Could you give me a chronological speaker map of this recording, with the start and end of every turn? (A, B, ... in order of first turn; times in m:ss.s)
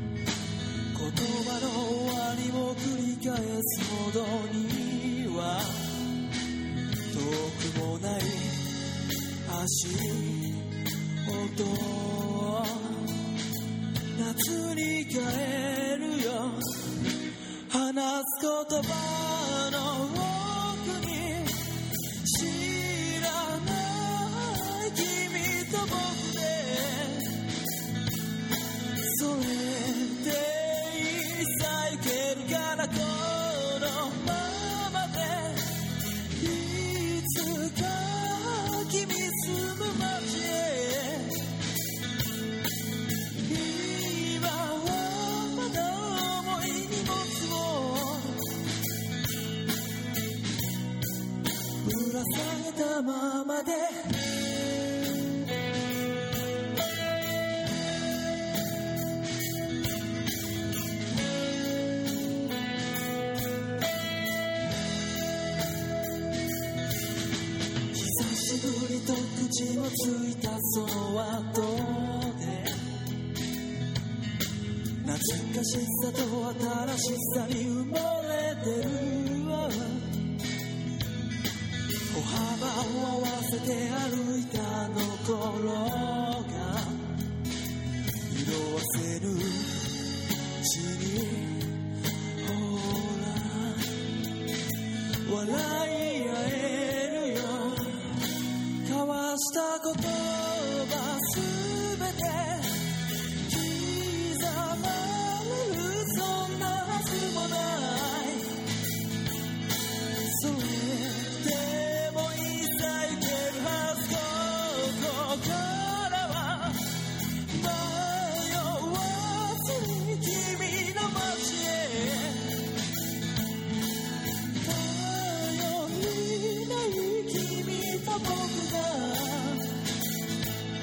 0:00.9-0:06.0 A
0:07.1-0:08.8 A
0:09.4-0:13.3 A
0:14.1-0:17.0 A
0:17.7-0:27.5 A
0:29.1-0:41.5 A
0:43.4-0:48.5 A
0:51.8-0:54.2 A
1:07.9-1:12.8 A
1:15.0-1:20.2 A
1:22.1-1:27.3 A
1:28.3-1:30.0 A
1:30.6-1:31.9 A
1:32.4-1:34.0 A
1:35.2-1:48.6 A
1:50.2-1:57.0 A
1:57.5-2:02.6 A
2:04.6-2:09.8 A